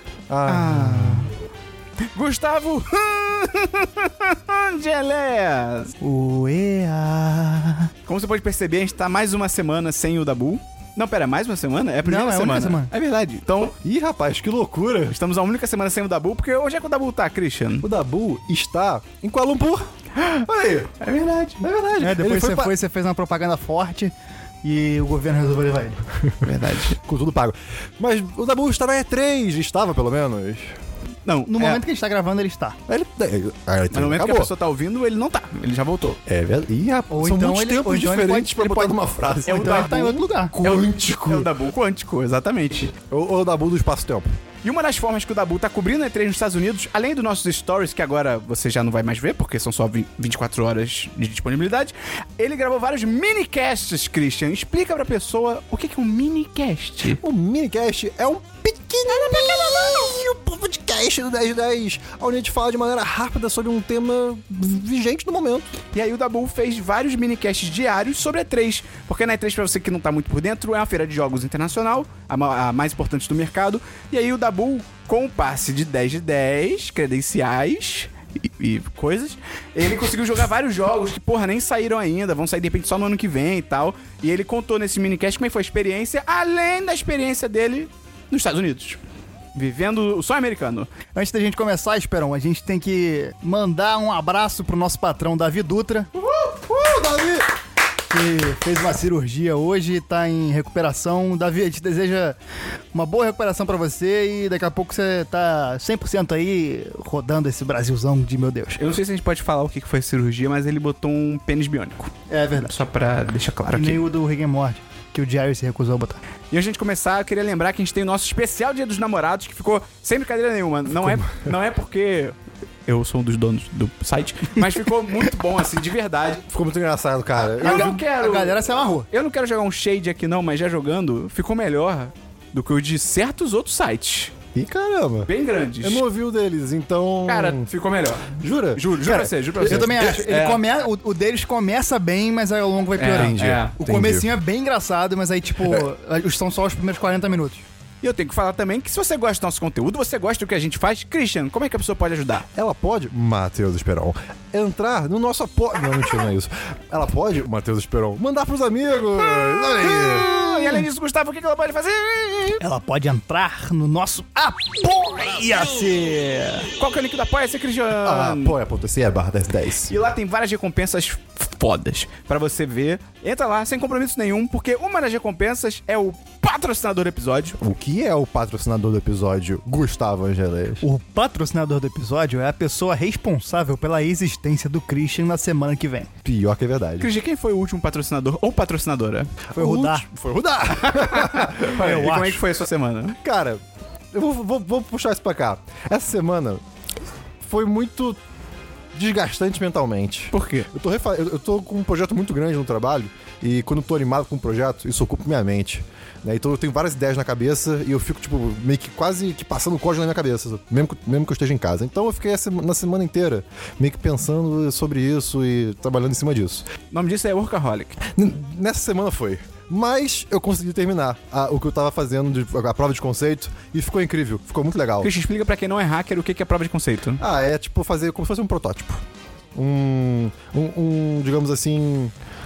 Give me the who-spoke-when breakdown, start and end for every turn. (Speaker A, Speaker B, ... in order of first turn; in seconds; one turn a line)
Speaker A: 0.3-1.2
Speaker B: 0.4-1.3
Speaker B: 2.1-5.9
Speaker C: 6.0-7.9
Speaker B: 8.1-13.8
Speaker C: 12.0-12.9
Speaker A: 13.8-15.1
Speaker B: 15.1-17.9
Speaker A: 17.8-19.9
Speaker B: 20.2-20.4
Speaker A: 20.4-21.0
Speaker B: 21.0-21.6
Speaker A: 21.6-22.7
Speaker C: 22.0-26.0
Speaker B: 26.4-27.0
Speaker A: 27.0-30.7
Speaker B: 31.2-31.8
Speaker C: 31.5-32.8
Speaker A: 32.9-34.5
Speaker B: 33.9-36.2
Speaker A: 36.3-41.5
Speaker C: 37.1-38.9
Speaker C: 39.5-40.5
Speaker B: 39.5-42.9
Speaker A: 43.1-44.3
Speaker B: 44.6-57.2
Speaker A: 57.2-65.7
Speaker B: 59.1-60.1
Speaker B: 65.9-89.0
Speaker B: 89.5-90.9
Speaker C: 91.1-96.1
Speaker A: 96.1-97.5
Speaker C: 98.1-102.3
Speaker C: 102.9-108.8
Speaker B: 108.8-112.1
Speaker C: 112.3-112.7
Speaker B: 112.6-114.0
Speaker C: 113.7-116.2
Speaker B: 116.5-122.3
Speaker A: 121.0-121.5
Speaker B: 122.9-126.4
Speaker A: 126.5-128.0
Speaker B: 127.6-134.3
Speaker C: 127.6-129.1
Speaker A: 134.5-137.7
Speaker B: 135.3-136.0
Speaker B: 137.2-140.6
Speaker A: 138.4-140.1
Speaker C: 139.1-147.6
Speaker B: 143.0-143.8
Speaker A: 143.1-144.3
Speaker B: 148.0-152.4
Speaker A: 152.5-160.8
Speaker B: 159.3-162.6
Speaker C: 162.6-166.7
Speaker B: 166.8-168.6
Speaker A: 168.0-169.9
Speaker B: 169.9-177.6
Speaker A: 177.6-180.8
Speaker C: 180.8-186.1
Speaker A: 186.2-187.1
Speaker B: 187.0-189.3
Speaker C: 189.5-190.1
Speaker A: 189.5-191.8
Speaker B: 190.8-193.2
Speaker C: 191.7-192.4
Speaker A: 193.2-193.6
Speaker A: 194.1-196.6
Speaker A: 197.4-198.2
Speaker A: 198.9-216.7
Speaker B: 200.3-200.7
Speaker B: 216.9-218.0
Speaker A: 218.1-225.1
Speaker B: 225.0-227.2
Speaker A: 227.2-229.0
Speaker A: 229.5-232.1